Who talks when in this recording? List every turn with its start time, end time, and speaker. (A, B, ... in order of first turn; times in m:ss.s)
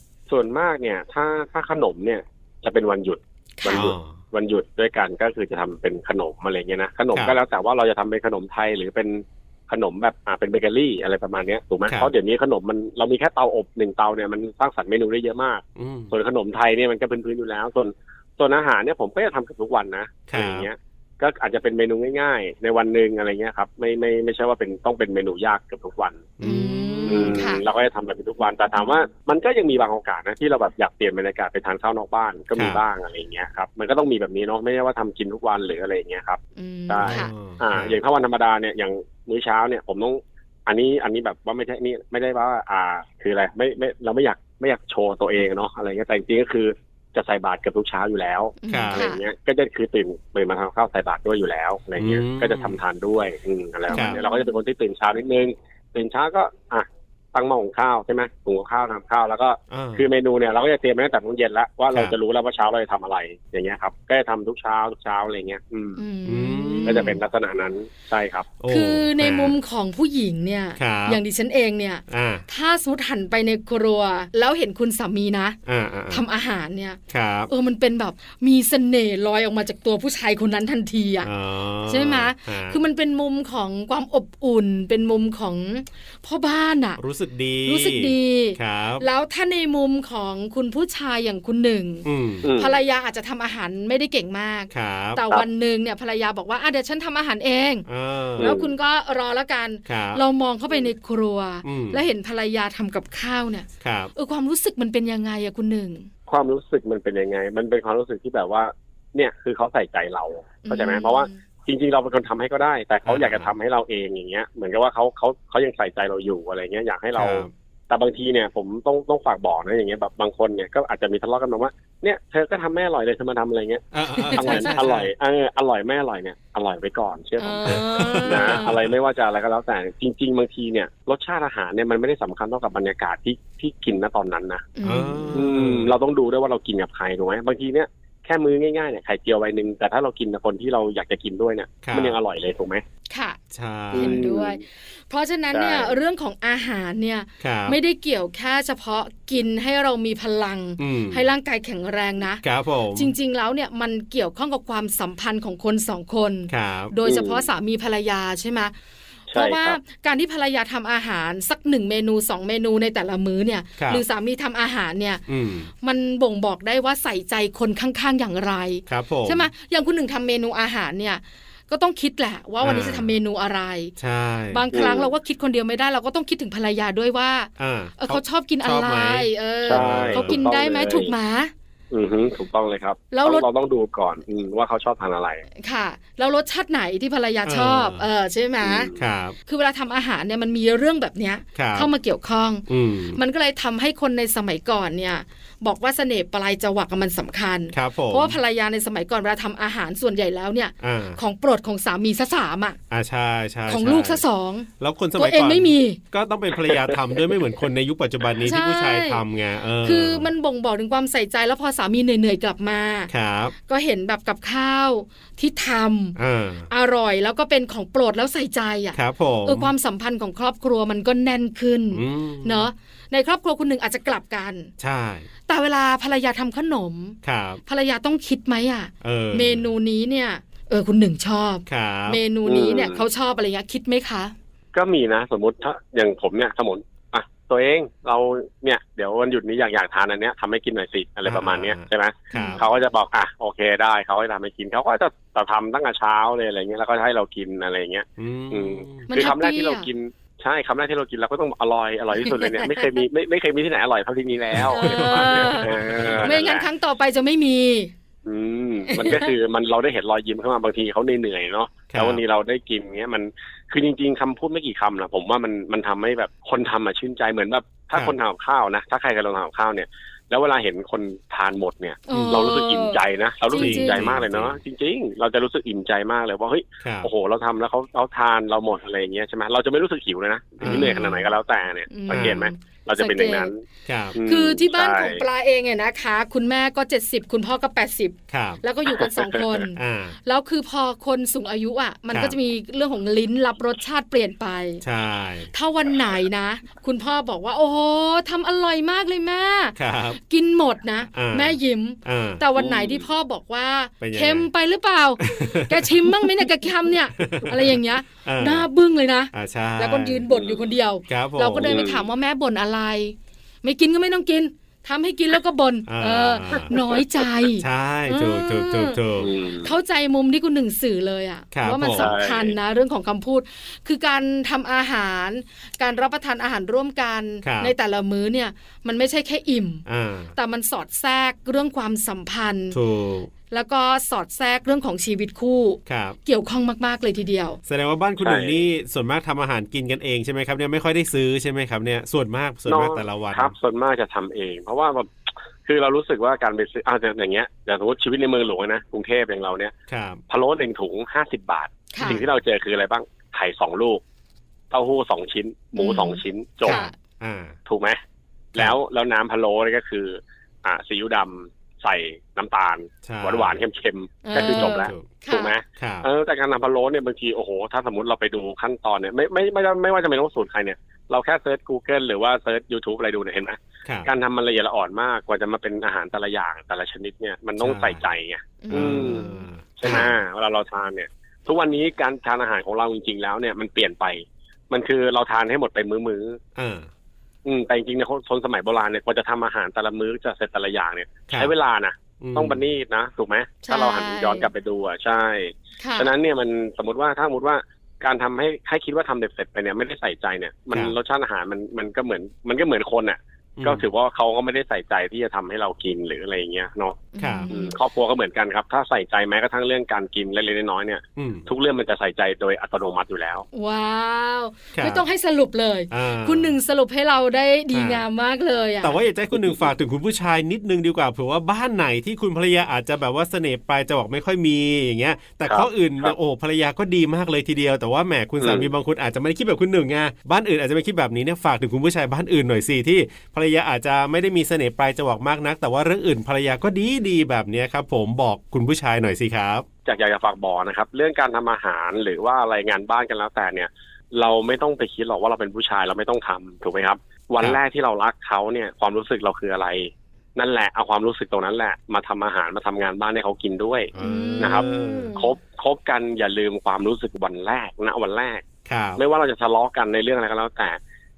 0:00.3-0:26.3 A
0:03.6-0:03.9 B
0:03.7-0:04.2 C
0:07.1-0:07.4 C
0:11.9-0:12.1 C
0:15.8-0:16.1 C
0:20.3-0:20.7 C
0:26.4-0:27.5 C
0:26.4-0:27.6 B
0:27.1-1:06.0 A
0:32.6-0:32.8 C
0:36.6-0:37.3 B
0:37.0-0:38.0 C
0:48.6-0:49.2 B
0:48.7-0:49.1 C
0:52.0-0:52.8 C
0:53.9-0:54.6 B
0:53.9-0:54.2 C
0:59.7-1:00.1 C
1:06.0-1:07.2 B
1:06.3-1:07.2 C
1:06.8-1:08.6 A
1:08.6-1:09.6 C
1:08.7-1:15.6 B
1:10.8-1:11.2 C
1:12.1-1:12.4 C
1:15.7-1:16.2 C
1:16.1-1:21.3 B
1:17.1-1:17.5 C
1:21.2-1:22.8 C
1:21.9-1:27.0 B
1:27.0-1:29.0 C
1:27.6-1:37.9 B
1:32.0-1:32.5 C
1:32.4-1:32.8 A
1:34.7-1:35.2 C
1:37.9-1:38.6 C
1:38.4-1:46.1 B
1:38.4-1:38.7 A
1:39.9-1:40.2 C
1:41.6-1:42.0 C
1:43.8-1:44.1 C
1:46.3-2:14.7 A
1:50.6-1:51.4 B
1:53.1-1:53.5 C
1:57.2-1:57.5 C
2:03.9-2:05.1 C
2:04.2-2:04.8 B
2:07.4-2:08.8 B
2:07.7-2:08.9 C
2:14.8-2:15.5 B
2:14.8-2:16.0 C
2:15.3-2:22.8 A
2:21.8-2:22.2 C
2:23.1-2:23.4 B
2:23.5-2:24.2 C
2:23.9-2:32.4 B
2:23.9-2:24.6 A
2:25.5-2:26.0 A
2:27.4-2:27.8 C
2:30.8-2:31.2 C
2:32.4-2:33.1 C
2:33.0-2:38.7 B
2:36.5-2:36.9 C
2:37.0-2:37.5 A
2:39.3-2:39.8 A
2:39.3-2:45.2 B
2:43.8-2:44.0 C
2:45.3-2:45.7 C
2:45.8-2:54.0 B
2:48.9-2:49.5 C
2:52.6-2:53.1 C
2:54.0-2:54.6 C
2:54.5-3:01.5 B
2:54.7-2:55.1 A
2:57.6-3:00.4 C
2:59.7-3:01.1 A
3:01.9-3:05.4 A
3:03.1-3:03.5 B
3:05.6-3:08.9 B
3:07.4-3:08.0 C
3:08.6-3:09.0 A
3:09.0-3:09.4 C
3:09.5-3:22.8 B
3:11.6-3:11.9 C
3:12.7-3:13.2 C
3:17.7-3:18.4 C
3:20.8-3:21.2 C
3:22.9-3:24.2 C
3:23.7-3:26.0 B
3:24.8-3:30.3 C
3:28.4-3:29.2 B
3:29.8-3:33.1 B
3:33.1-3:33.5 C
3:33.6-3:36.2 B
3:36.2-3:36.7 C
3:36.7-3:44.7 B
3:38.9-3:39.7 C
3:41.9-3:42.7 C
3:44.8-3:45.3 C
3:45.5-3:54.4 B
3:47.2-3:47.6 C
3:49.0-3:49.7 C
3:51.7-3:52.2 C
3:52.5-3:53.0 A
3:54.7-4:16.7 A
4:01.3-4:02.6 C
4:02.3-4:02.6 B
4:08.2-4:09.1 C
4:09.1-4:09.9 B
4:12.2-4:13.0 B
4:14.5-4:16.4 C
4:14.7-4:17.9 B
4:18.2-4:43.6 A
4:18.9-4:19.3 B
4:21.9-4:22.2 C
4:32.1-4:34.1 B
4:32.1-4:32.5 C
4:33.6-4:34.6 C
4:36.8-4:37.1 C
4:40.6-4:41.2 C
4:40.6-4:41.3 B
4:41.9-4:43.5 B
4:42.1-4:42.4 C
4:43.9-4:44.2 C
4:44.1-4:45.2 A
4:44.2-4:54.8 B
4:48.3-4:48.6 C
4:49.0-4:49.4 A
4:49.7-4:50.2 C
4:52.1-4:52.4 C
4:54.8-4:55.5 C
4:55.5-5:19.0 B
4:59.8-5:00.2 C
5:01.1-5:02.4 C
5:02.6-5:03.1 A
5:04.0-5:04.5 C
5:05.2-5:06.5 C
5:07.2-5:08.7 C
5:09.3-5:10.2 C
5:10.3-5:10.7 A
5:11.1-5:11.8 C
5:11.6-5:12.1 A
5:15.9-5:16.8 C
5:17.6-5:19.3 C
5:19.2-5:19.7 A
5:19.6-5:32.8 B
5:21.5-5:22.1 C
5:21.9-5:22.5 A
5:27.4-5:27.7 C
5:29.9-5:30.3 C
5:32.7-5:33.3 C
5:33.5-5:37.6 B
5:35.9-5:36.2 C
5:37.7-5:43.6 C
5:38.2-5:38.6 A
5:42.7-5:45.1 A
5:45.7-5:49.7 A
5:49.9-5:50.2 C
5:50.3-5:54.0 A
5:51.9-5:52.2 B
5:54.7-5:56.9 A
5:55.8-5:56.9 B
5:56.6-5:57.6 C
5:57.7-5:58.0 A
5:58.5-6:26.4 A
6:03.0-6:03.6 C
6:04.2-6:05.5 B
6:04.3-6:05.2 C
6:05.8-6:06.1 C
6:13.8-6:14.1 C
6:17.6-6:18.1 C
6:18.6-6:20.0 B
6:18.7-6:20.2 C
6:26.6-6:26.9 C
6:27.4-6:53.5 A
6:32.2-6:32.6 C
6:33.6-6:34.5 B
6:35.8-6:36.1 B
6:40.7-6:41.0 C
6:43.6-6:43.9 C
6:47.1-6:47.8 B
6:47.2-6:47.5 C
6:51.2-6:51.5 C
6:53.5-6:59.0 B
6:54.7-6:55.0 C
6:55.9-6:56.6 C
6:57.7-6:58.0 C
6:58.8-7:19.7 C
6:59.4-6:59.7 A
7:05.5-7:06.1 A
7:08.4-7:08.7 A
7:19.8-7:38.4 A
7:34.0-7:35.1 C
7:34.0-7:35.3 B
7:38.7-7:39.0 C
7:39.0-7:40.8 A